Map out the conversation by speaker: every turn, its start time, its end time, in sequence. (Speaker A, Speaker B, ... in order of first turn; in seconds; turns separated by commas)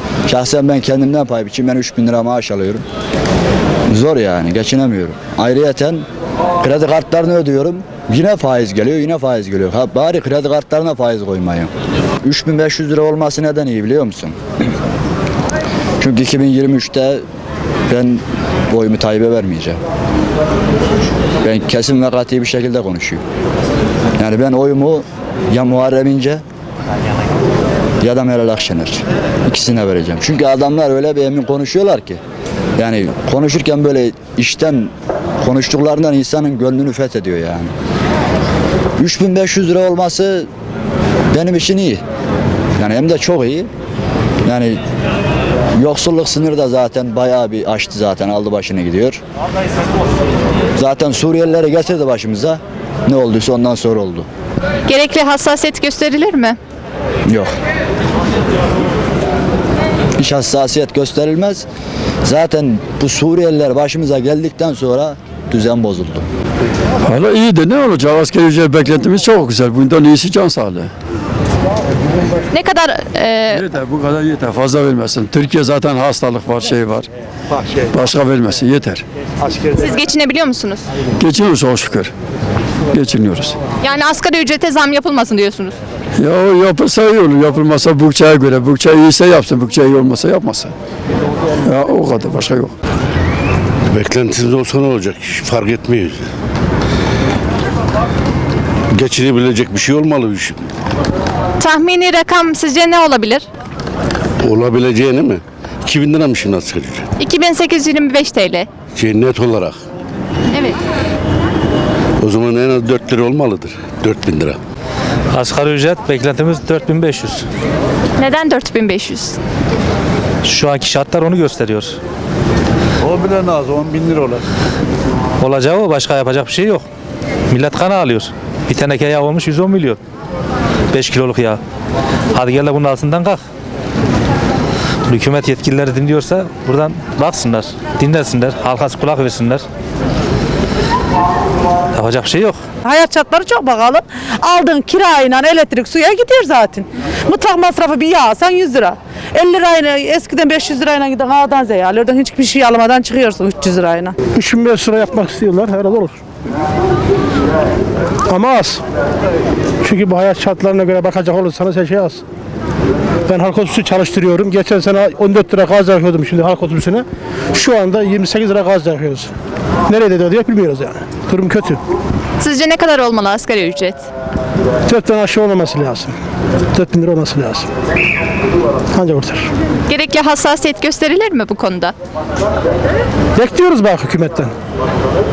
Speaker A: 0.3-2.8, Speaker A: 3.9-6.0, Speaker A: 6.6-11.7, Speaker A: 12.2-14.4, Speaker A: 16.0-17.2, Speaker A: 17.9-19.8, Speaker A: 21.4-23.2, Speaker A: 24.2-26.4, Speaker A: 28.0-32.2, Speaker A: 32.8-37.7, Speaker A: 39.0-40.5, Speaker A: 41.3-42.0, Speaker A: 42.8-43.7, Speaker A: 44.4-44.8, Speaker A: 45.8-49.2, Speaker A: 50.8-54.3, Speaker B: 54.9-56.5, Speaker A: 60.2-61.6, Speaker A: 62.2-66.2, Speaker C: 67.0-70.9, Speaker B: 72.5-73.6, Speaker C: 73.5-77.1, Speaker C: 77.9-79.0, Speaker B: 79.8-80.8, Speaker C: 81.2-82.1, Speaker C: 82.9-83.5, Speaker B: 83.8-85.7, Speaker C: 86.2-90.7, Speaker C: 91.7-92.7, Speaker D: 93.9-96.1, Speaker C: 94.0-96.1, Speaker D: 99.0-100.6, Speaker C: 99.1-100.4, Speaker B: 101.6-103.4, Speaker D: 104.4-107.0, Speaker C: 104.6-105.3, Speaker C: 106.0-106.8, Speaker B: 107.2-108.7, Speaker D: 109.0-109.7, Speaker C: 109.2-109.7, Speaker D: 112.2-114.6, Speaker C: 112.4-113.6, Speaker C: 114.2-114.5, Speaker E: 115.3-117.4, Speaker B: 118.2-119.3, Speaker E: 120.4-122.0, Speaker E: 125.4-126.8, Speaker E: 127.5-130.0, Speaker E: 130.9-131.6, Speaker E: 132.3-133.4, Speaker E: 135.1-139.6, Speaker E: 141.9-142.6, Speaker F: 142.8-154.1, Speaker G: 154.4-156.2, Speaker G: 158.3-158.8, Speaker G: 159.8-162.2, Speaker G: 163.3-169.3, Speaker G: 169.9-171.8, Speaker B: 172.4-174.0, Speaker G: 174.9-176.1, Speaker G: 176.7-177.7, Speaker G: 178.9-179.5, Speaker B: 179.9-181.9, Speaker G: 183.3-184.5